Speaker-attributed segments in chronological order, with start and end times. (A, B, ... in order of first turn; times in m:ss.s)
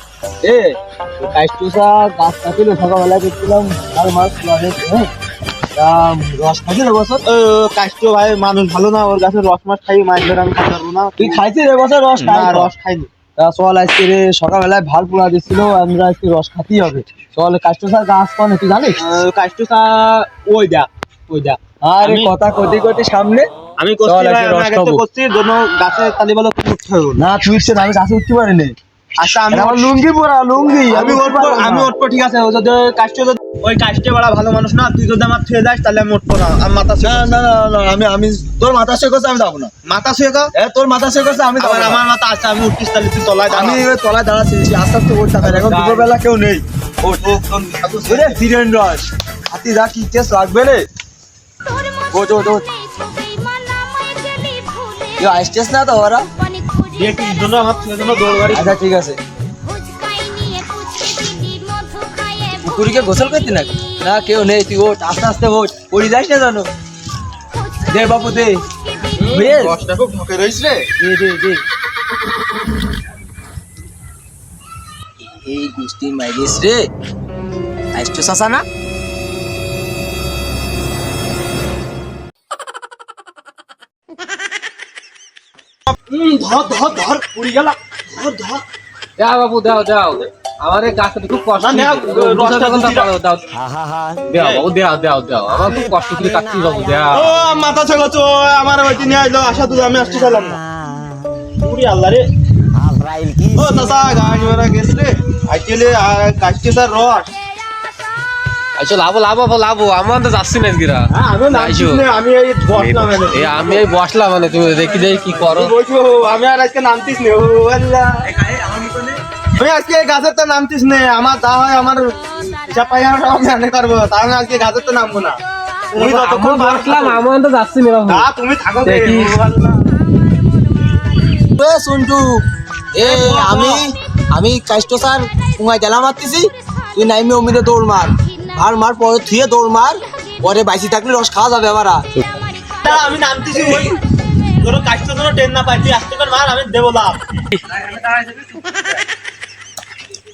0:00.4-0:05.1 A
0:05.8-0:07.2 A
0:07.2-0:11.4 B
0:11.2-0:12.7 A
0:12.2-0:13.1 B
0:13.4-0:19.0 A
0:19.0-0:22.4 B
0:21.8-0:23.5 A
0:23.8-0:27.2 B
0:24.1-0:25.0 A
0:27.2-0:28.7 A
0:29.2-0:29.9 B
0:29.5-0:31.9 A
0:30.9-0:37.4 B
0:37.0-0:39.7 A
0:39.8-0:40.5 B
0:40.5-0:42.0 A
0:41.6-0:43.9 B
0:43.5-0:47.2 A
0:45.4-0:46.1 B
0:47.1-0:48.4 B
0:48.0-0:50.8 A
0:52.1-0:52.6 A
0:55.2-0:56.3 A
0:56.9-0:58.8 B
0:58.5-0:59.2 A
1:02.6-1:06.7 A
1:07.9-1:08.6 A
1:09.2-1:10.9 B
1:09.2-1:09.8 A
1:11.0-1:11.6 A
1:15.3-1:16.9 A
1:17.9-1:18.6 A
1:26.1-1:28.6 B
1:29.2-1:33.4 C
1:31.6-1:33.1 B
1:34.3-1:37.3 C
1:34.3-1:34.6 B
1:37.1-1:40.6 B
1:41.6-1:42.2 B
1:43.5-1:47.3 B
1:48.8-1:52.0 C
1:51.1-1:53.8 B
1:52.7-1:55.7 C
1:55.5-1:58.2 B
1:58.2-1:59.2 A
1:59.5-2:02.1 B
2:02.7-2:05.4 B
2:05.9-2:07.2 B
2:06.0-2:08.3 C
2:08.1-2:09.8 B
2:08.8-2:09.4 C
2:11.5-2:12.4 A
2:12.9-2:22.0 A
2:13.0-2:13.8 B
2:22.8-2:24.0 B
2:24.6-2:27.2 B
2:27.6-2:28.3 C